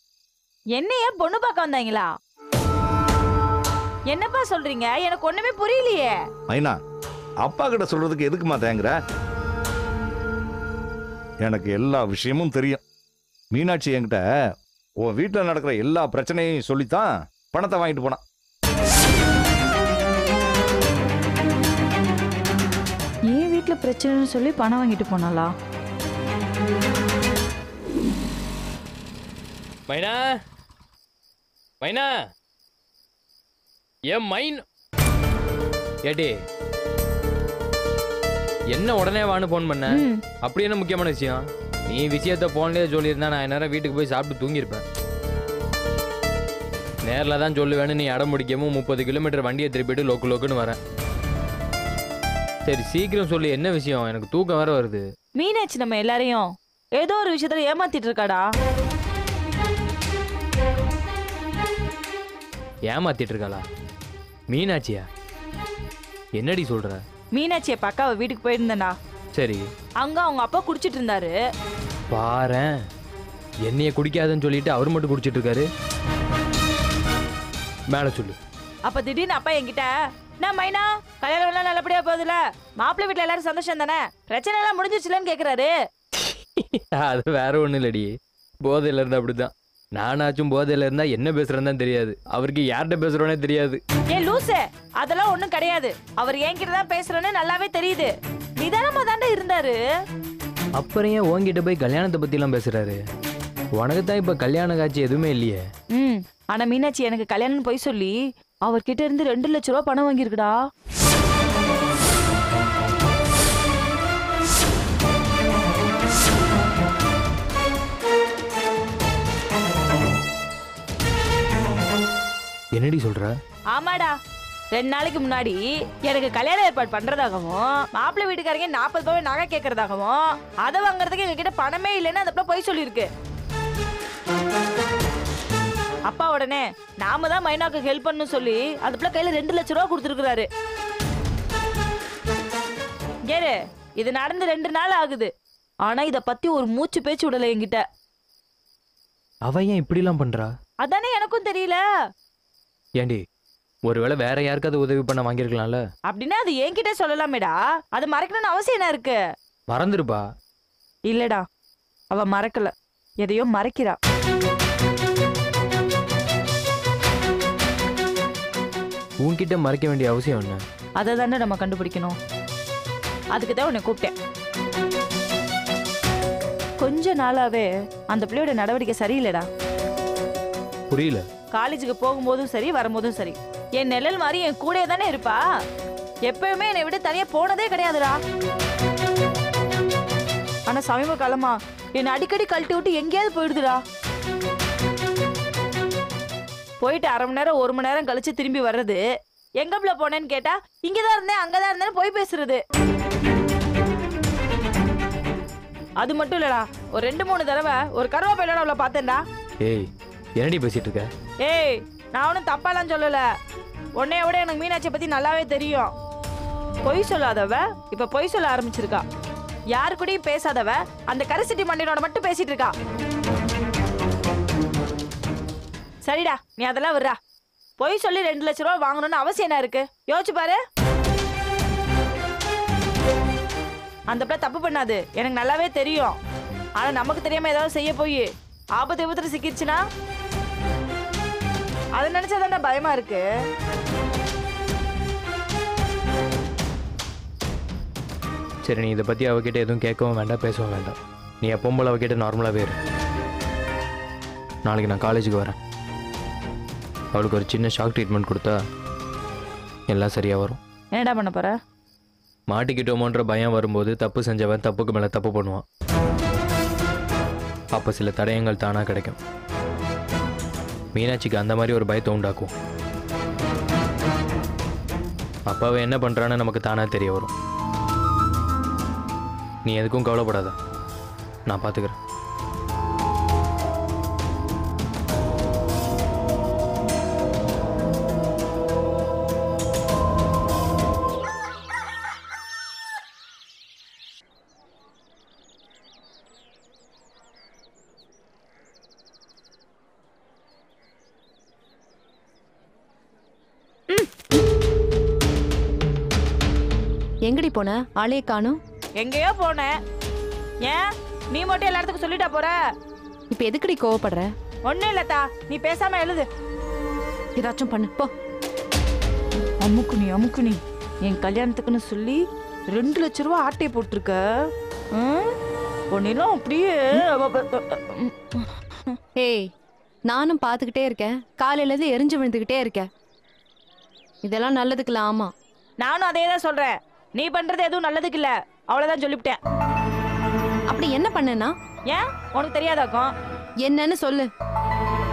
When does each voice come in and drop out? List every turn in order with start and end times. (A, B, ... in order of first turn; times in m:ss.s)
0:00.8-0:02.1 A
0:04.1-0:06.2 A
0:06.5-0:06.8 B
0:07.4-0:08.9 B
0:11.4-0:12.8 B
0:13.5-0:14.2 B
0:15.0-0:18.2 B
0:23.3-0:25.5 A
0:29.9-0:30.2 C
0:31.8-0:32.1 C
0:34.1-0:34.6 C
0:36.0-0:36.4 C
0:38.7-0:44.8 C
0:39.9-0:40.2 A
0:47.0-0:50.8 C
0:52.6-0:55.1 C
0:55.4-0:58.4 A
1:02.9-1:03.6 C
1:04.5-1:05.0 C
1:06.4-1:07.0 C
1:07.3-1:08.9 A
1:09.4-1:09.7 C
1:10.0-1:11.3 A
1:12.1-1:12.7 C
1:13.6-1:15.7 C
1:17.9-1:18.4 C
1:18.9-1:25.7 A
1:26.2-1:33.8 C
1:34.1-1:39.8 A
1:40.8-1:43.0 C
1:43.8-1:45.6 C
1:46.0-1:48.1 A
1:48.6-1:50.5 A
2:02.7-2:03.3 C
2:03.7-2:04.1 A
2:04.7-2:13.1 A
2:16.1-2:20.5 A
2:23.3-2:25.3 A
2:25.8-2:27.8 A
2:29.4-2:30.5 C
2:30.8-2:31.8 A
2:33.8-2:35.8 C
2:36.1-2:39.2 A
2:39.7-2:40.2 C
2:41.1-2:41.4 A
2:42.1-2:42.7 A
2:43.2-2:44.0 A
2:49.2-2:50.6 C
2:51.0-2:52.2 A
2:53.3-2:54.1 A
2:56.8-2:59.4 A
3:00.9-3:01.2 C
3:01.5-3:05.4 A
3:06.3-3:08.2 A
3:10.7-3:13.8 A
3:16.8-3:19.0 A
3:19.6-3:22.6 A
3:26.0-3:29.2 A
3:29.6-3:31.1 C
3:31.4-3:33.2 A
3:34.0-3:35.9 A
3:36.8-3:39.0 A
3:39.7-3:42.7 A
3:46.0-3:47.2 A
3:47.8-3:50.6 A
3:54.1-3:56.2 A
3:56.8-3:58.2 A
3:58.8-3:59.8 A
4:02.0-4:03.2 A
4:08.6-4:12.8 C
4:14.6-4:15.6 C
4:17.1-4:18.6 C
4:19.9-4:20.6 C
4:20.9-4:21.6 A
4:22.5-4:25.6 C
4:27.7-4:29.2 C
4:30.9-4:32.5 C
4:35.5-4:37.3 C
4:39.6-4:40.5 C
4:41.5-4:42.0 C
5:07.2-5:08.6 D
5:09.0-5:09.7 A
5:10.6-5:12.6 A
5:13.3-5:14.3 D
5:14.7-5:16.3 A
5:17.4-5:18.1 D
5:19.6-5:22.2 A
5:22.7-5:24.2 A
5:24.9-5:25.3 A
5:25.9-5:29.0 A
5:29.2-5:29.5 D
5:30.1-5:32.9 D
5:34.2-5:35.3 D
5:35.8-5:39.4 A
5:40.7-5:41.5 D
5:41.9-5:43.1 A
5:43.6-5:44.3 D